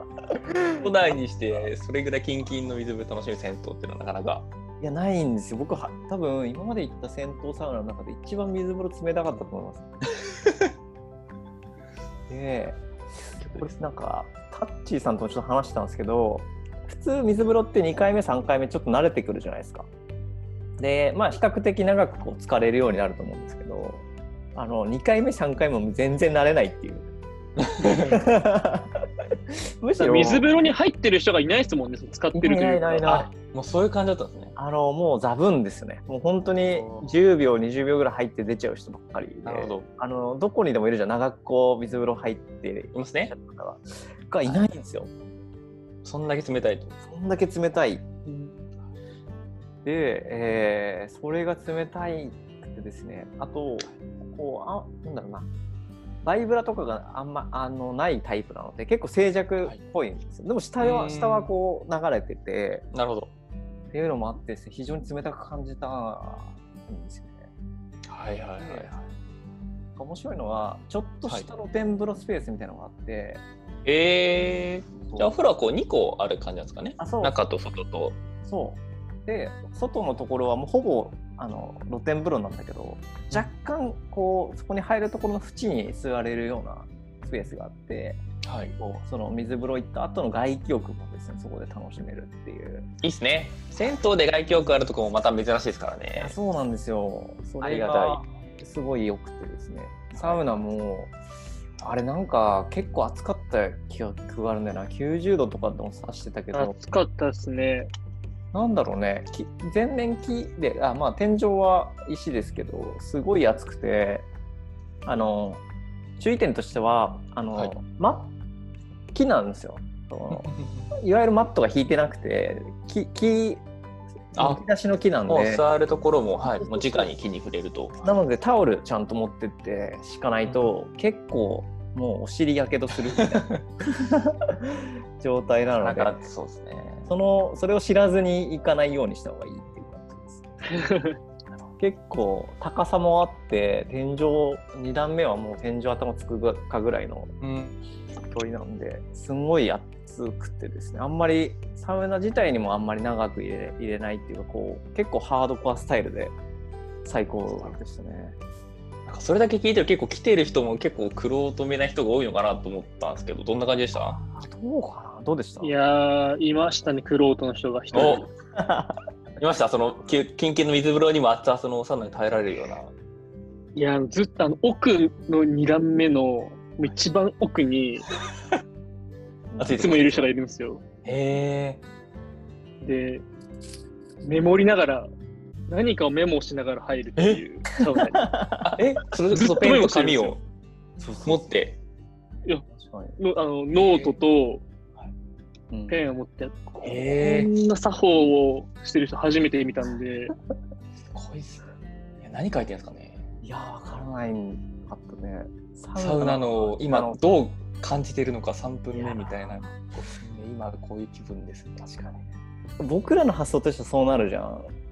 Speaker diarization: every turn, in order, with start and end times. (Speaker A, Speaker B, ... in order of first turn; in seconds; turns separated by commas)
Speaker A: 0.8-4.5, Speaker B: 4.8-9.8, Speaker B: 12.3-12.8, Speaker A: 13.4-13.7, Speaker B: 13.5-19.9, Speaker B: 20.8-24.0, Speaker B: 24.6-27.1, Speaker A: 27.6-28.2, Speaker B: 27.8-28.9, Speaker B: 29.8-30.5, Speaker C: 30.0-33.1, Speaker B: 32.3-33.3, Speaker A: 33.0-34.5, Speaker B: 34.6-45.1, Speaker A: 36.7-37.2, Speaker A: 39.4-39.9, Speaker A: 42.9-43.3, Speaker A: 46.0-47.0, Speaker B: 47.0-48.1, Speaker C: 48.2-48.5, Speaker B: 49.8-55.5, Speaker B: 56.2-62.9, Speaker A: 60.8-61.5, Speaker A: 62.9-63.3, Speaker B: 63.9-67.4, Speaker A: 68.1-69.0, Speaker B: 68.6-68.9, Speaker B: 70.0-73.4, Speaker A: 73.8-78.2, Speaker B: 75.0-75.3, Speaker B: 77.0-77.4, Speaker B: 78.4-88.2, Speaker A: 88.4-88.8, Speaker B: 88.8-92.9, Speaker A: 93.0-96.3, Speaker B: 96.2-101.1, Speaker A: 97.6-98.2, Speaker A: 100.1-100.5, Speaker B: 101.8-106.7, Speaker C: 106.5-107.9, Speaker B: 108.5-114.3, Speaker B: 115.0-115.6, Speaker B: 116.2-118.3, Speaker B: 119.1-123.7, Speaker A: 120.3-120.9, Speaker B: 124.3-125.7, Speaker A: 124.3-124.6, Speaker A: 125.3-128.1, Speaker B: 126.4-127.1, Speaker B: 128.0-136.2, Speaker A: 133.1-133.6, Speaker A: 135.8-137.1, Speaker B: 137.1-140.9, Speaker C: 140.9-141.2, Speaker B: 141.8-147.3, Speaker A: 147.4-147.8, Speaker B: 148.3-156.3, Speaker B: 157.0-158.3, Speaker A: 159.1-164.2, Speaker B: 164.0-165.7, Speaker C: 165.6-168.3, Speaker A: 167.9-168.2, Speaker B: 168.1-169.0, Speaker A: 169.4-172.9, Speaker C: 173.8-178.1, Speaker B: 179.5-180.2, Speaker A: 179.6-180.3, Speaker C: 179.8-180.8, Speaker A: 181.0-181.8, Speaker C: 182.8-183.2, Speaker C: 184.2-185.1, Speaker C: 185.7-188.3, Speaker A: 187.2-187.4, Speaker B: 188.1-188.8, Speaker A: 188.6-190.4, Speaker C: 189.3-190.4, Speaker B: 191.0-191.5, Speaker A: 191.2-191.8, Speaker B: 192.7-193.2, Speaker C: 193.2-194.6, Speaker A: 193.8-194.2, Speaker B: 195.7-196.0, Speaker C: 195.9-200.3, Speaker A: 196.8-197.5, Speaker A: 201.1-201.7, Speaker A: 202.2-203.3, Speaker B: 203.4-207.2, Speaker A: 206.0-212.0, Speaker B: 208.9-210.0, Speaker B: 211.8-212.2, Speaker B: 212.8-214.7